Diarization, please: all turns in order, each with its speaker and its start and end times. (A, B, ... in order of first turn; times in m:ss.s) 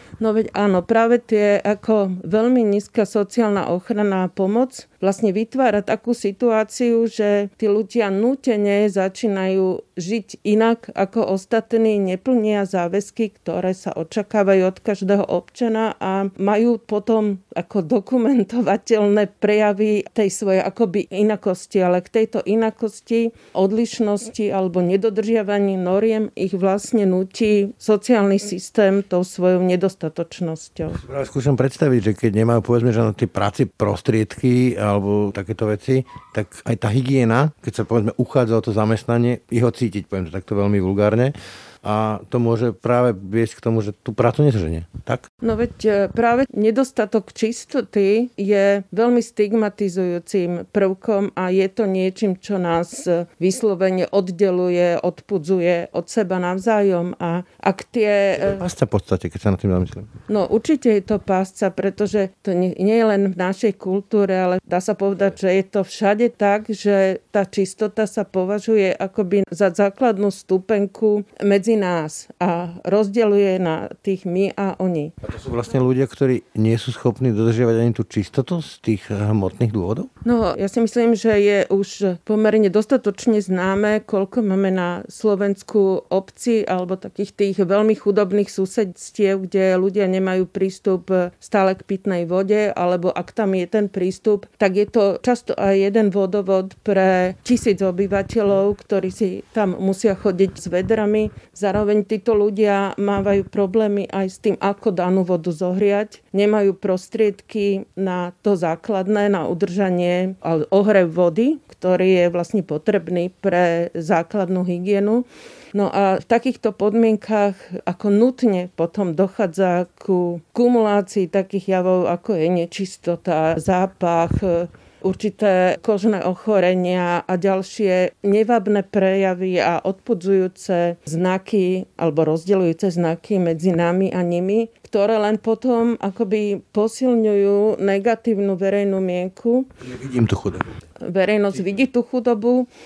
0:00.2-0:31.0 A
0:31.0-0:45.2 B
0:45.4-0:58.6 A
0:58.4-1:00.1 B
1:00.3-1:15.1 A
1:15.2-1:20.1 B
1:20.2-2:19.7 A
2:19.8-2:20.7 B
2:21.0-2:22.7 A